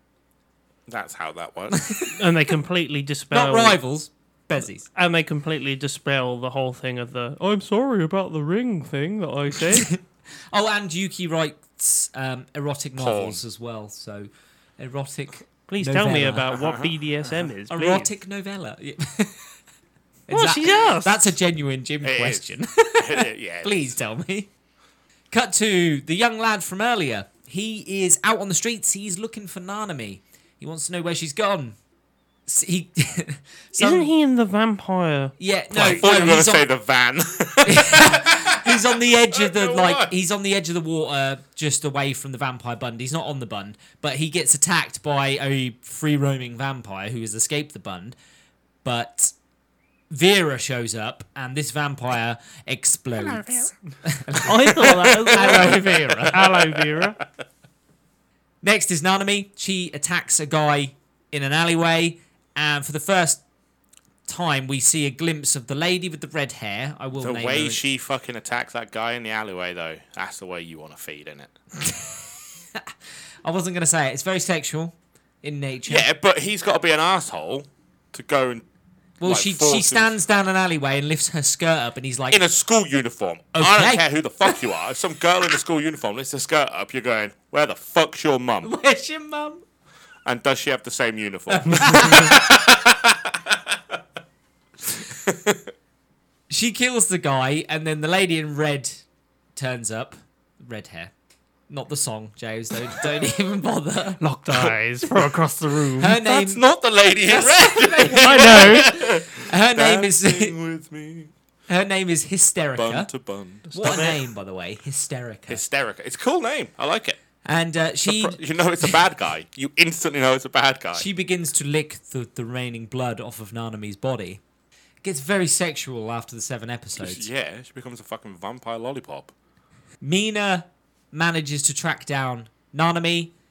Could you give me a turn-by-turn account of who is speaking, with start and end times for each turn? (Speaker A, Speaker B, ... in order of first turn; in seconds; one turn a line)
Speaker A: 0.9-1.8
Speaker B: 1.7-2.1
Speaker C: 2.1-3.8
Speaker B: 3.3-4.8
Speaker C: 4.9-9.9
Speaker B: 9.7-10.0
Speaker B: 10.5-16.6
Speaker A: 13.0-13.4
Speaker C: 15.7-18.1
Speaker A: 16.5-16.9
Speaker B: 17.7-19.5
Speaker B: 20.3-24.5
Speaker C: 20.3-21.3
Speaker A: 22.0-22.4
Speaker A: 23.0-23.9
Speaker B: 25.3-31.8
Speaker B: 32.5-34.1
Speaker C: 33.8-36.0
Speaker B: 35.4-36.7
Speaker A: 35.9-40.1
Speaker B: 37.6-48.1
Speaker B: 48.8-49.3
Speaker B: 50.1-56.6
Speaker C: 54.4-57.2
Speaker A: 55.3-57.0
Speaker B: 58.6-63.4
Speaker B: 64.3-67.8
Speaker A: 67.2-71.5
Speaker B: 71.8-72.9
Speaker B: 73.4-76.0
Speaker A: 75.9-78.6
Speaker B: 79.2-82.4
Speaker A: 79.2-80.2
Speaker A: 82.3-88.7
Speaker B: 83.5-84.5
Speaker B: 88.6-89.6
Speaker A: 90.2-93.8
Speaker B: 91.5-92.6
Speaker A: 95.1-95.6
Speaker B: 96.5-99.0
Speaker B: 99.5-101.1
Speaker B: 101.7-104.2
Speaker C: 104.2-106.2
Speaker A: 104.5-104.7
Speaker B: 106.0-106.6
Speaker A: 106.2-111.3
Speaker B: 107.3-110.5
Speaker C: 108.2-108.9
Speaker B: 111.7-113.1
Speaker A: 112.8-114.2
Speaker B: 113.7-115.6
Speaker A: 115.5-117.2
Speaker B: 117.4-118.9
Speaker A: 118.0-121.1
Speaker B: 120.9-124.4
Speaker B: 125.0-127.2
Speaker A: 127.0-129.3
Speaker B: 130.0-133.3